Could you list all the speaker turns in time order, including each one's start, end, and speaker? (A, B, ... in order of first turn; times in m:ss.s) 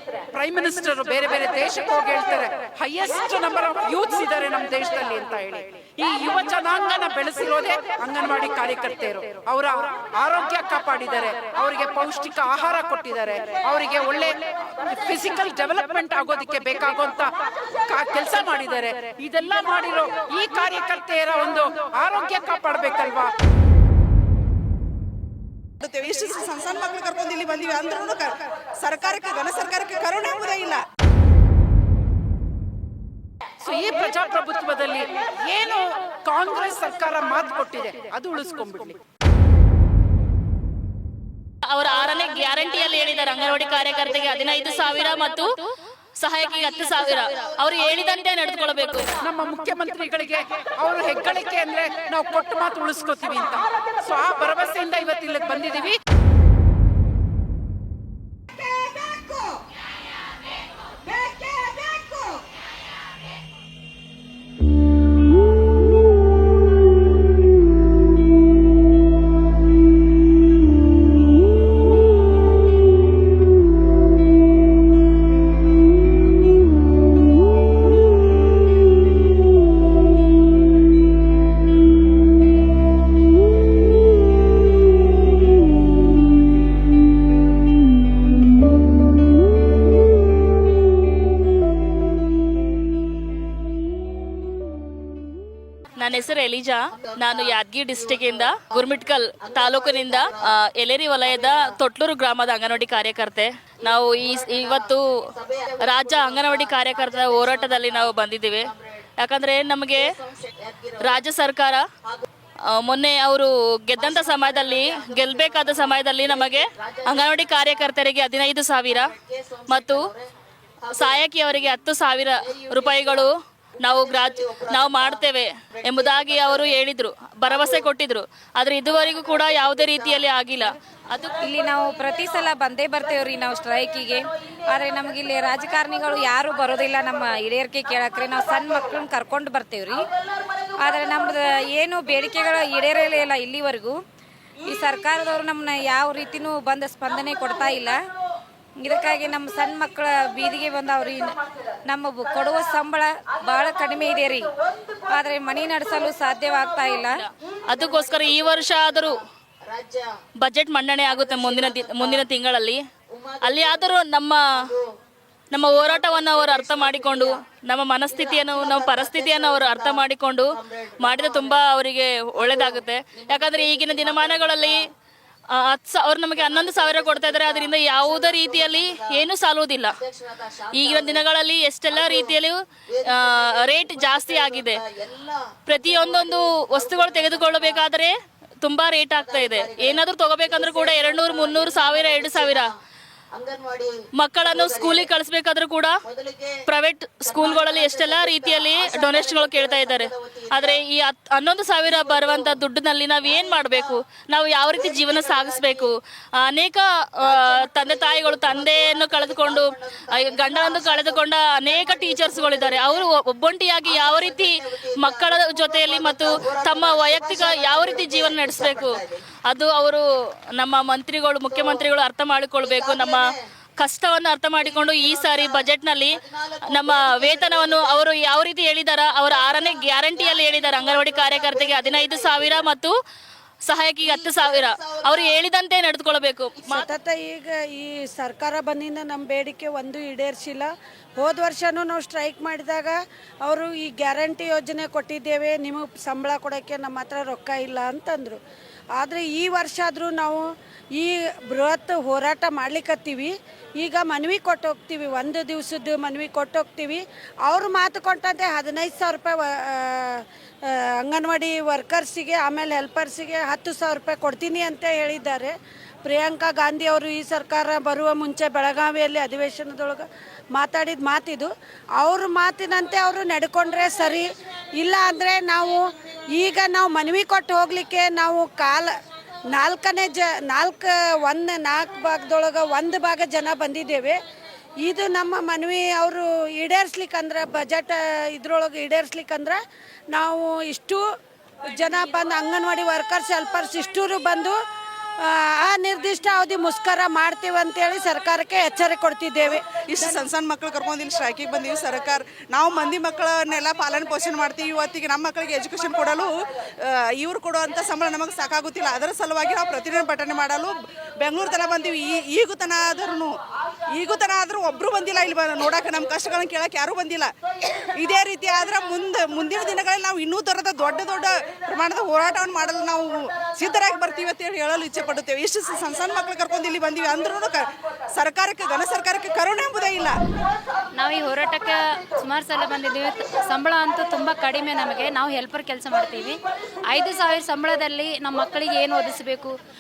0:00.3-0:17.3 A
0:17.8-0:23.3 A
0:25.8-0:30.8 B
0:33.6-0:39.0 A
0:41.7-0:45.6 C
0:46.2-0:49.1 C
0:49.2-0:56.0 A
1:01.6-1:01.9 B
1:36.0-1:45.0 C
1:45.8-1:48.7 C
1:49.2-1:50.0 C
1:51.0-1:51.8 C
1:52.7-1:59.2 C
1:59.7-2:00.0 C
2:01.0-2:03.3 C
2:03.8-2:11.4 C
2:11.4-2:20.1 D
2:20.7-2:24.0 D
2:24.6-2:28.0 D
2:28.8-2:34.5 D
2:35.1-2:37.2 D
2:37.0-2:39.2 C
2:40.4-2:42.8 C
2:43.4-2:44.7 C
2:45.5-2:50.5 C
2:51.0-2:54.8 C
2:55.6-3:00.0 C
3:00.7-3:04.8 C
3:05.7-3:12.7 C
3:11.5-3:12.6 B
3:14.2-3:15.9 C
3:16.7-3:40.0 C
3:19.4-3:20.0 B
3:25.2-3:25.7 B
3:28.2-3:29.2 B
3:35.6-3:37.2 B
3:40.6-3:43.2 C
3:43.8-3:52.9 C
3:53.7-3:56.9 C
3:56.7-4:08.4 E
4:09.0-4:39.0 E
4:39.5-4:44.2 E
4:44.8-4:49.6 E
4:50.1-4:51.0 E
4:51.7-4:54.6 E
4:55.2-4:59.7 E
4:59.8-5:13.4 B
5:13.9-5:30.2 B
5:31.0-5:39.6 F